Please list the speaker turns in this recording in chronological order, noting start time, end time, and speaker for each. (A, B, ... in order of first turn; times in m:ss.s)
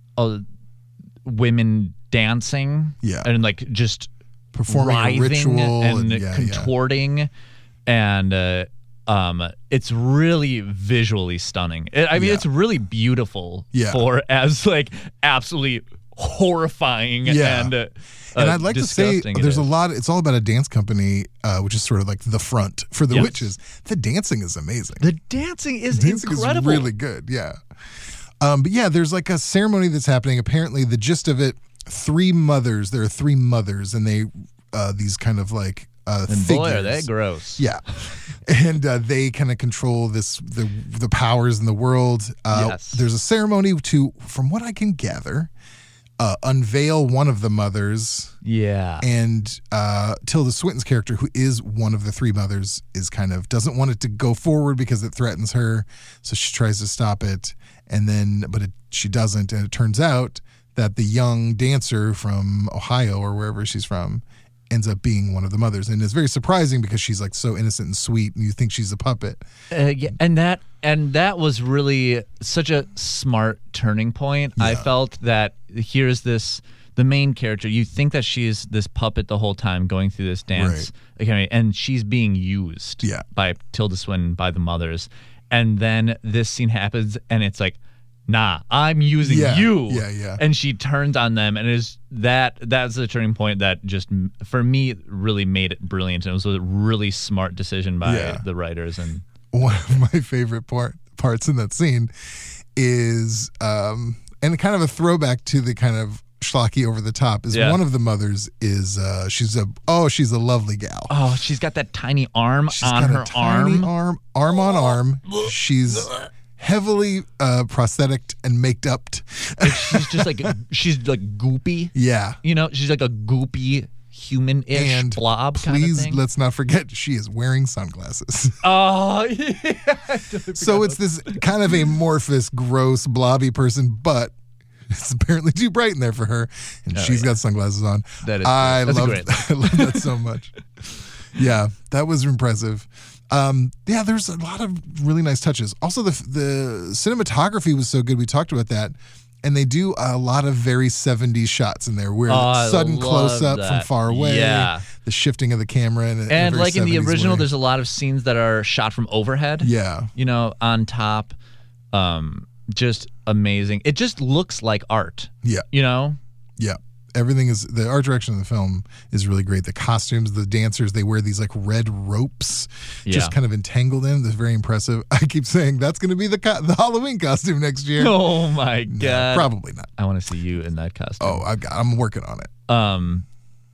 0:00.2-0:00.4 A
0:01.2-0:04.1 A
0:03.0-0:03.3 B
0:04.5-0:06.7 B
0:04.7-0:07.3 A
0:07.9-0:19.7 A
0:12.1-0:12.4 B
0:13.7-0:14.0 B
0:17.2-0:17.8 B
0:18.4-0:25.1 B
0:23.1-0:23.5 A
0:25.0-0:26.9 A
0:25.9-0:27.6 B
0:28.4-0:45.5 B
0:36.3-0:37.6 A
0:42.5-0:43.0 A
0:46.2-0:48.3 B
0:48.4-0:49.1 A
0:49.0-1:09.4 B
1:09.7-1:39.2 A
1:14.6-1:14.9 B
1:20.5-1:20.9 B
1:29.2-1:30.4 B
1:38.0-1:38.4 B
1:39.5-1:42.1 B
1:42.8-1:51.1 B
1:47.5-1:47.8 A
1:51.1-1:53.9 A
1:52.7-2:00.5 B
1:59.6-2:06.2 A
2:01.9-2:02.4 B
2:04.7-2:08.6 B
2:08.6-2:11.4 A
2:10.5-2:14.4 B
2:14.9-2:37.5 B
2:16.9-2:17.4 A
2:18.2-2:20.2 A
2:32.2-2:34.9 A
2:36.3-2:41.4 A
2:39.6-2:40.1 B
2:41.9-2:46.2 A
2:46.6-2:59.9 B
2:53.0-2:53.4 A
2:58.0-3:01.5 A
3:01.2-3:02.5 B
3:02.7-3:03.2 A